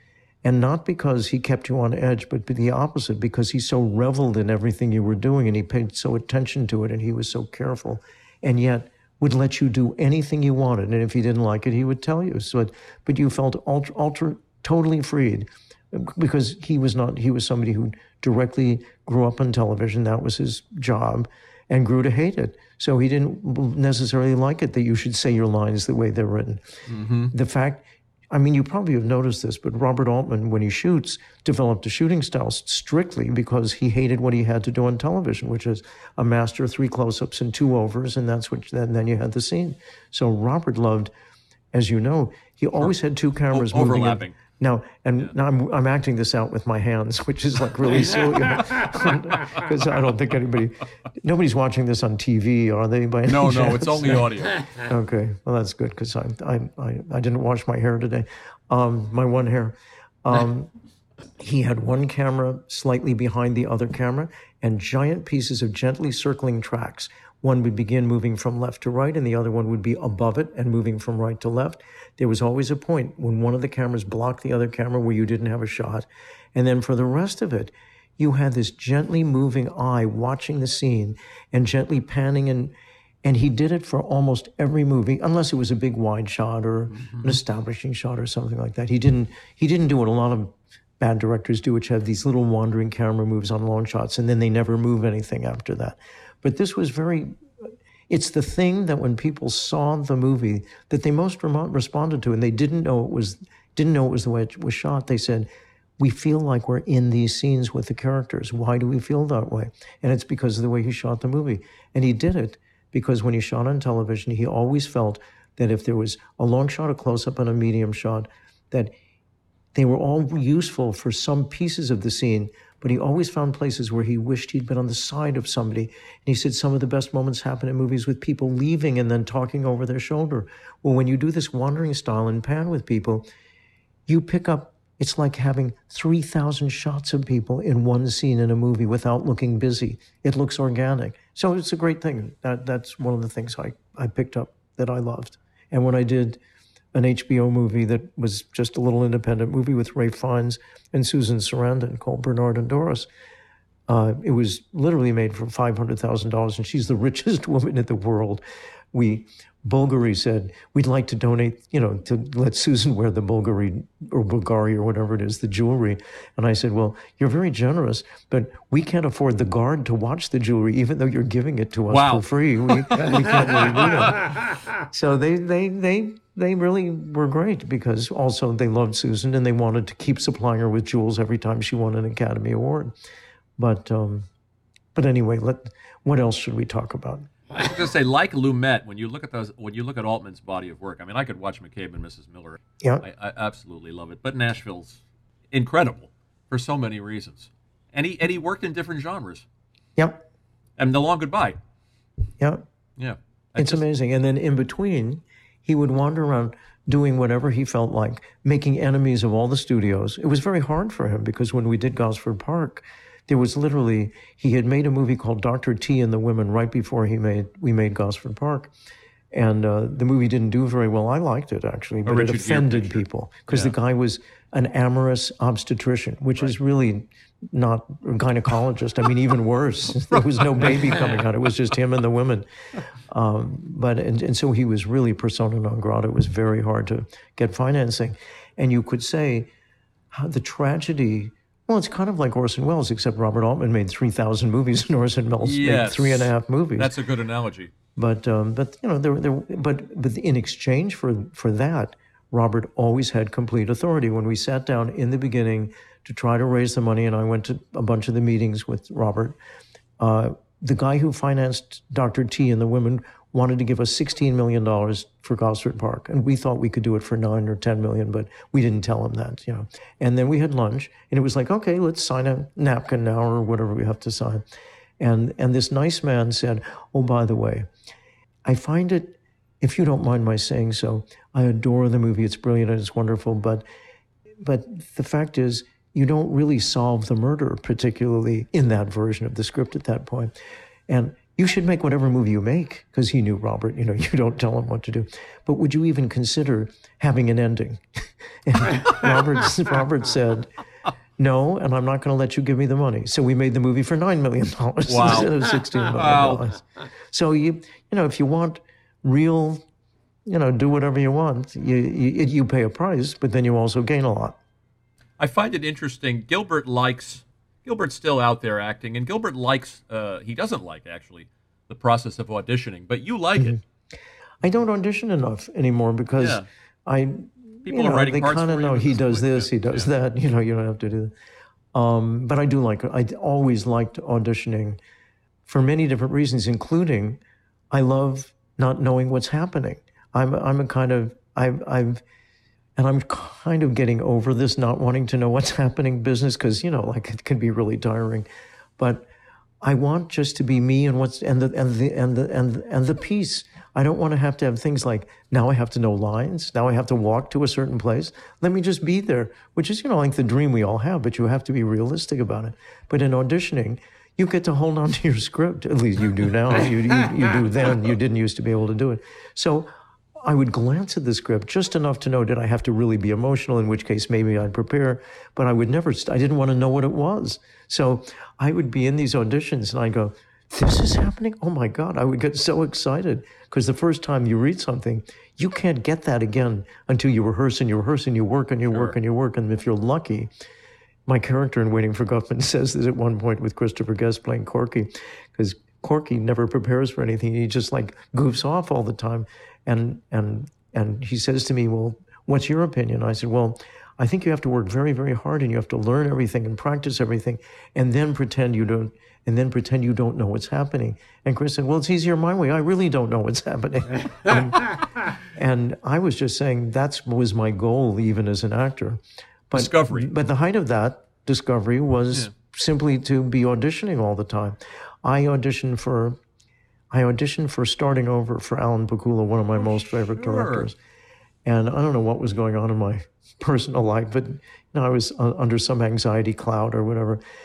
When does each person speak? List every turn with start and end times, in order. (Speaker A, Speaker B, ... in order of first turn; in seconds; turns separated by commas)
Speaker A: 0.4-26.6, Speaker B: 26.9-27.3, Speaker A: 27.3-41.1, Speaker A: 41.7-60.7, Speaker B: 43.5-44.3, Speaker B: 53.3-54.8, Speaker A: 61.4-97.4, Speaker B: 87.0-87.4, Speaker A: 98.1-118.9, Speaker A: 119.7-133.2, Speaker A: 134.1-146.4, Speaker A: 146.9-153.1, Speaker A: 153.9-158.4, Speaker A: 158.9-174.3, Speaker B: 171.9-174.2, Speaker A: 174.9-182.9, Speaker A: 183.6-184.3, Speaker A: 184.9-187.3, Speaker B: 187.5-195.0, Speaker B: 195.5-199.4, Speaker A: 200.0-200.2, Speaker B: 200.8-201.6, Speaker B: 203.0-203.8, Speaker A: 203.6-218.7, Speaker A: 219.3-232.5, Speaker B: 222.1-223.7, Speaker B: 230.1-230.8, Speaker A: 233.1-239.5, Speaker A: 240.1-246.9, Speaker B: 245.4-247.7, Speaker A: 247.9-259.4, Speaker A: 260.0-274.4, Speaker A: 275.0-277.7, Speaker A: 278.4-283.6, Speaker A: 284.4-290.3, Speaker A: 290.9-300.5, Speaker A: 301.2-309.6, Speaker B: 304.9-306.4, Speaker A: 310.2-314.4, Speaker B: 315.2-323.6, Speaker A: 324.4-331.1, Speaker B: 326.2-326.5, Speaker B: 327.6-329.9, Speaker A: 331.7-334.8, Speaker A: 335.4-342.0, Speaker A: 342.8-349.1, Speaker A: 349.6-390.3, Speaker A: 391.1-426.2, Speaker B: 419.5-420.1, Speaker A: 426.9-430.8, Speaker B: 429.7-430.7, Speaker A: 431.4-437.2